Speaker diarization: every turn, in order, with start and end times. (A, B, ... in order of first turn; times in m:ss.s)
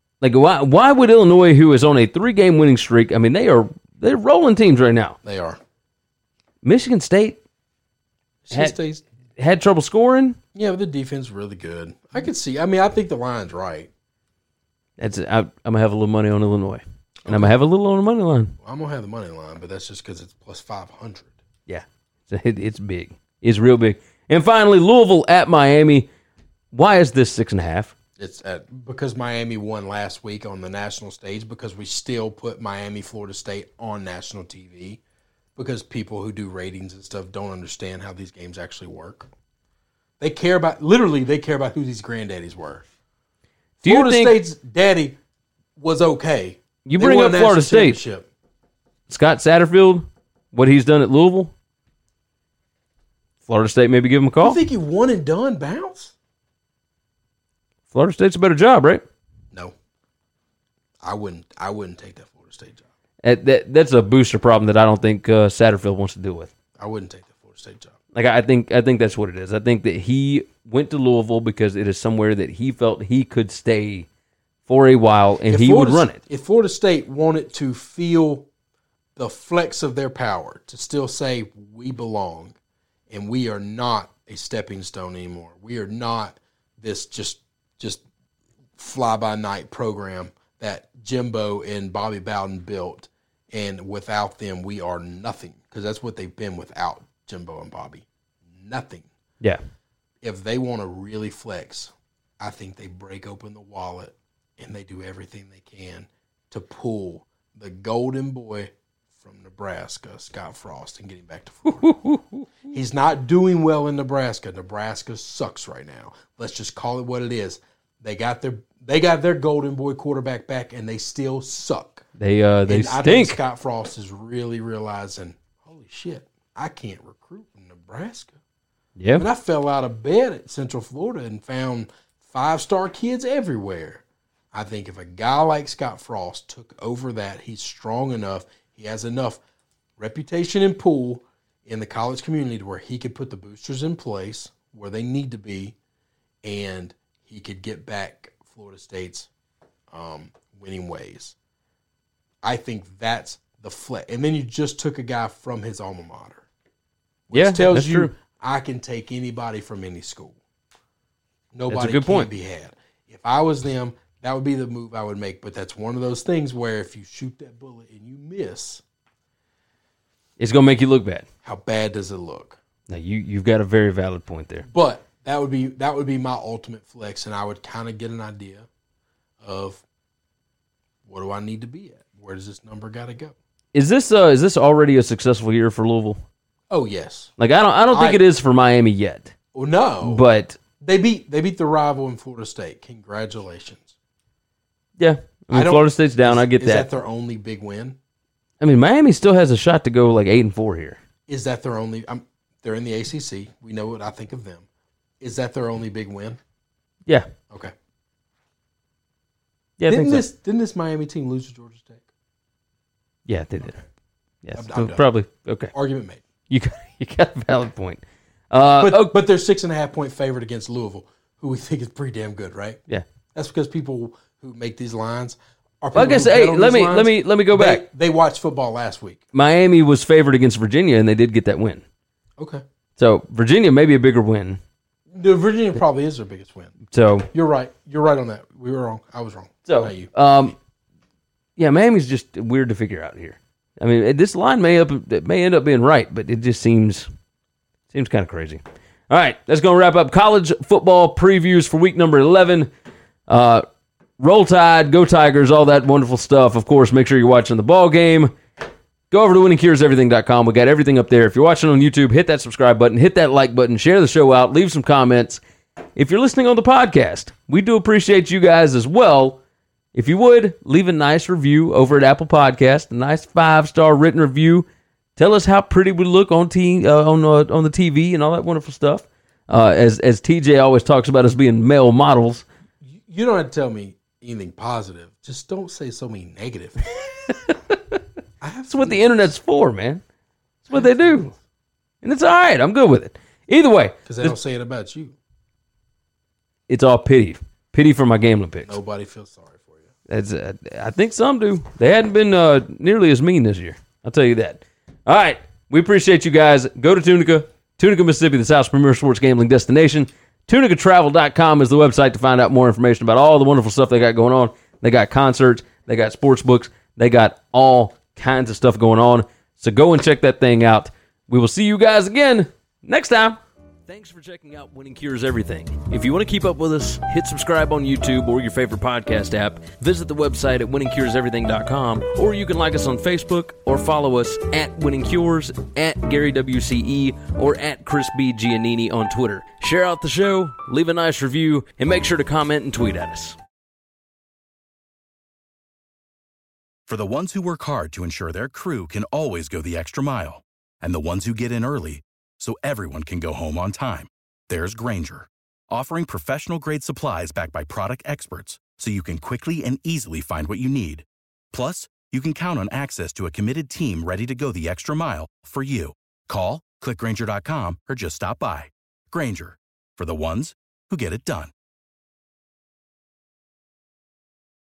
0:00.2-0:05.2 A
0:05.2-0:05.6 B
0:06.6-0:07.4 A
0:08.4-0:09.0 B
0:09.4-0:10.4 A
0:10.6-0:13.9 B
0:15.0-0:18.6 A
0:17.2-0:17.6 B
0:18.6-0:21.4 B
0:21.7-0:26.1 A
0:26.7-0:28.0 A
0:28.2-0:35.0 B
0:35.6-0:39.3 B
0:40.2-0:42.8 B
0:43.8-0:45.2 B
0:43.8-0:44.4 A
0:45.8-0:48.3 B
0:46.8-0:48.0 A
0:49.1-0:51.5 A
0:53.5-0:54.6 A
0:54.4-0:56.1 B
0:57.9-0:59.0 A
1:01.0-1:02.8 B
1:03.2-1:06.5 A
1:06.8-1:08.0 B
1:08.1-1:14.1 A
1:14.7-1:16.2 A
1:15.5-1:18.5 B
1:19.2-1:22.6 B
1:23.1-1:28.0 B
1:28.8-1:39.1 B
1:40.2-1:52.0 B
1:51.8-1:52.2 A
1:52.7-2:02.0 B
2:02.2-2:03.4 A
2:02.7-2:08.4 B
2:09.0-2:09.2 A
2:09.2-2:19.4 B
2:20.0-2:25.8 B
2:26.4-2:29.3 B
2:29.9-2:31.4 B
2:32.4-2:36.5 B
2:37.3-2:40.4 B
2:37.3-2:38.1 A
2:41.5-2:48.8 B
2:41.7-2:42.3 A
2:50.4-2:51.3 A
2:51.4-2:52.6 B
2:52.9-2:54.7 A
2:54.7-2:58.7 B
2:59.4-2:59.8 B
3:01.1-3:03.3 B
3:03.7-3:06.2 A
3:06.7-3:07.3 B
3:07.4-3:09.3 A
3:07.9-3:08.2 B
3:09.5-3:10.2 B
3:10.0-3:10.6 A
3:10.8-3:13.9 B
3:15.0-3:16.9 A
3:15.5-3:18.0 B
3:18.6-3:21.0 A
3:21.3-3:24.7 B
3:25.2-3:26.4 B
3:29.8-3:30.3 A
3:29.9-3:32.1 B
3:33.3-3:33.8 A
3:34.4-3:35.7 A
3:34.6-3:35.0 B
3:35.7-3:36.2 B
3:36.5-3:39.1 A
3:38.8-3:42.8 B
3:43.3-3:49.2 B
3:45.9-3:47.8 A
3:49.3-3:51.8 A
3:52.4-3:52.6 B
3:53.0-3:54.6 A
3:55.1-3:56.8 B
3:56.9-3:57.3 A
3:57.3-4:00.1 B
3:59.7-4:00.6 A
4:01.6-4:07.1 A
4:07.9-4:12.7 A
4:13.3-4:13.6 A
4:14.2-4:18.3 A
4:19.1-4:25.4 A
4:26.0-4:29.4 A
4:29.9-4:42.5 A
4:42.8-4:46.8 B
4:47.3-4:48.0 A
4:48.4-4:49.3 B
4:48.7-4:50.0 A
4:50.6-4:51.3 A
4:50.7-4:51.4 B
4:52.0-4:54.4 A
4:54.1-4:55.2 B
4:56.7-4:58.8 A
4:58.6-4:59.9 B
5:00.1-5:43.4 A
5:46.9-6:11.5 C